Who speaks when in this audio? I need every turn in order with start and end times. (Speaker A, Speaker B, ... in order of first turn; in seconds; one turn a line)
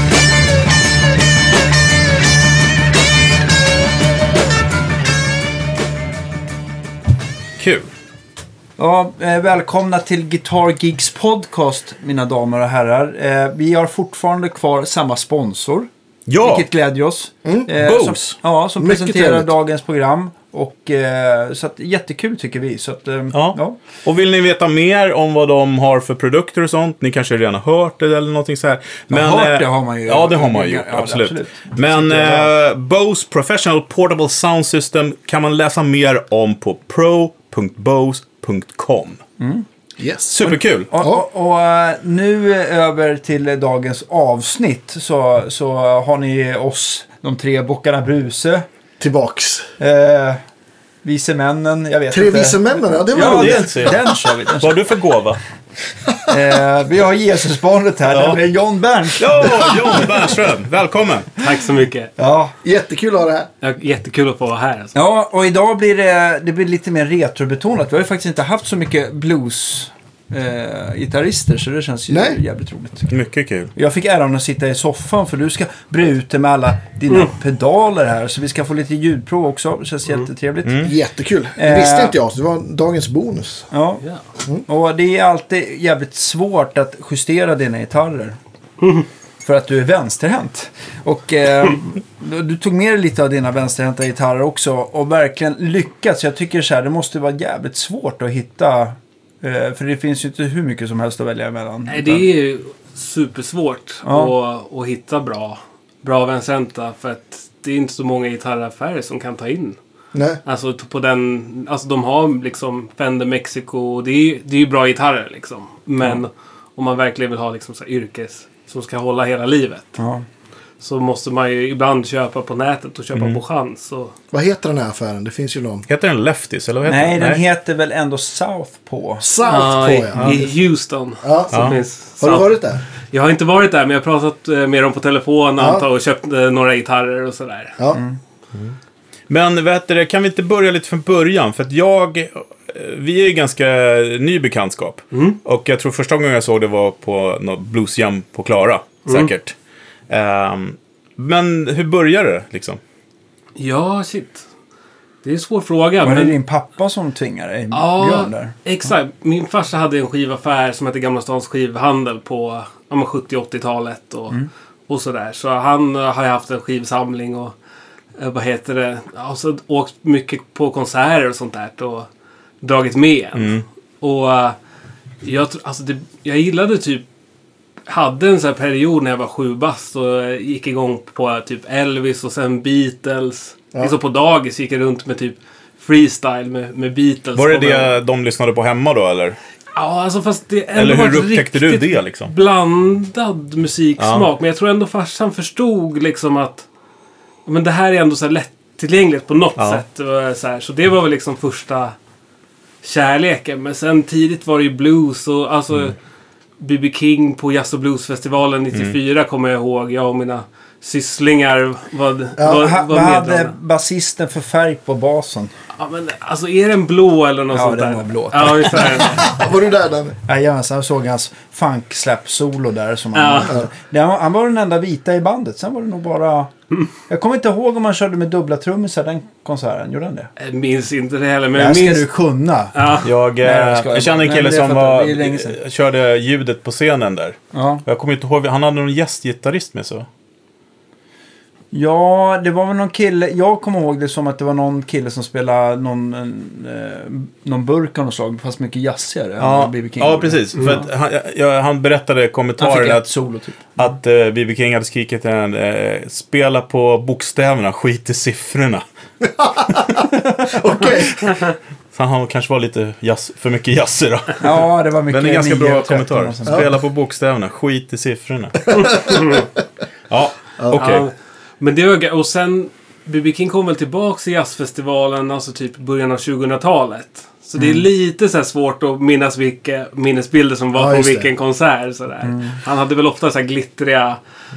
Speaker A: 7.6-7.9
Speaker B: 8.8-15.9
Speaker A: 16.3-16.7
Speaker B: 16.4-23.8
Speaker C: 17.4-17.7
Speaker A: 17.8-18.4
Speaker C: 18.8-19.6
Speaker A: 23.3-39.2
Speaker B: 29.1-32.5
Speaker B: 39.4-39.7
Speaker C: 40.0-40.4
Speaker A: 40.3-40.9
Speaker B: 40.4-48.7
Speaker C: 49.0-49.7
Speaker B: 49.8-50.4
Speaker B: 51.0-54.8
Speaker C: 52.1-54.0
Speaker A: 53.2-55.4
Speaker C: 56.1-56.3
Speaker B: 56.3-60.0
Speaker A: 58.1-58.4
Speaker A: 59.2-61.4
Speaker D: 61.4-62.1
Speaker B: 62.2-62.5
Speaker C: 62.6-63.5
Speaker D: 63.6-65.0
Speaker B: 65.0-73.1
Speaker C: 72.1-72.4
Speaker A: 73.1-73.7
Speaker B: 73.8-80.9
Speaker A: 80.7-80.9
Speaker C: 80.8-83.7
Speaker B: 81.6-82.2
Speaker B: 83.7-84.0
Speaker B: 84.7-88.4
Speaker B: 89.4-102.3
Speaker D: 101.9-109.8
Speaker B: 104.0-104.3
Speaker C: 110.1-110.4
Speaker D: 110.5-120.0
Speaker B: 120.0-120.3
Speaker D: 120.8-124.1
Speaker A: 123.1-123.4
Speaker C: 124.3-125.9
Speaker A: 125.9-127.4
Speaker B: 126.8-129.2
Speaker C: 129.2-130.6
Speaker D: 129.5-132.6
Speaker B: 130.2-130.5
Speaker C: 131.2-132.8
Speaker A: 131.5-131.8
Speaker D: 133.1-137.8
Speaker C: 135.6-135.8
Speaker B: 137.9-138.2
Speaker A: 139.3-149.6
Speaker D: 145.1-145.4
Speaker A: 150.1-152.8
Speaker D: 153.6-154.4
Speaker D: 155.2-156.3
Speaker B: 156.0-158.6
Speaker D: 157.7-167.5
Speaker D: 168.2-172.1
Speaker D: 172.6-174.6
Speaker A: 173.3-173.6
Speaker D: 175.2-177.0
Speaker D: 177.9-188.0
Speaker A: 187.4-189.4
Speaker D: 189.7-196.7
Speaker A: 190.8-192.3
Speaker A: 194.0-194.3
Speaker D: 197.5-201.9
Speaker A: 199.6-199.8
Speaker D: 202.8-206.0
Speaker D: 206.6-213.5
Speaker C: 212.4-212.7
Speaker B: 212.5-215.5
Speaker D: 215.8-219.4
Speaker B: 217.5-219.3
Speaker C: 219.1-220.2
Speaker B: 220.2-226.5
Speaker D: 223.2-223.6
Speaker B: 227.1-230.3
Speaker D: 230.4-232.1
Speaker B: 231.6-232.8
Speaker D: 232.7-233.1
Speaker A: 233.0-240.1
Speaker B: 233.4-235.6
Speaker B: 237.5-237.8
Speaker B: 241.7-250.8
Speaker A: 249.4-253.1
Speaker B: 252.6-253.7
Speaker A: 253.8-258.9
Speaker C: 259.2-261.4
Speaker A: 261.9-268.6
Speaker B: 264.4-266.7
Speaker C: 268.7-269.5
Speaker D: 269.0-269.5
Speaker A: 270.1-271.1
Speaker D: 270.7-284.2
Speaker B: 277.6-277.9
Speaker C: 280.8-281.3
Speaker B: 282.2-282.6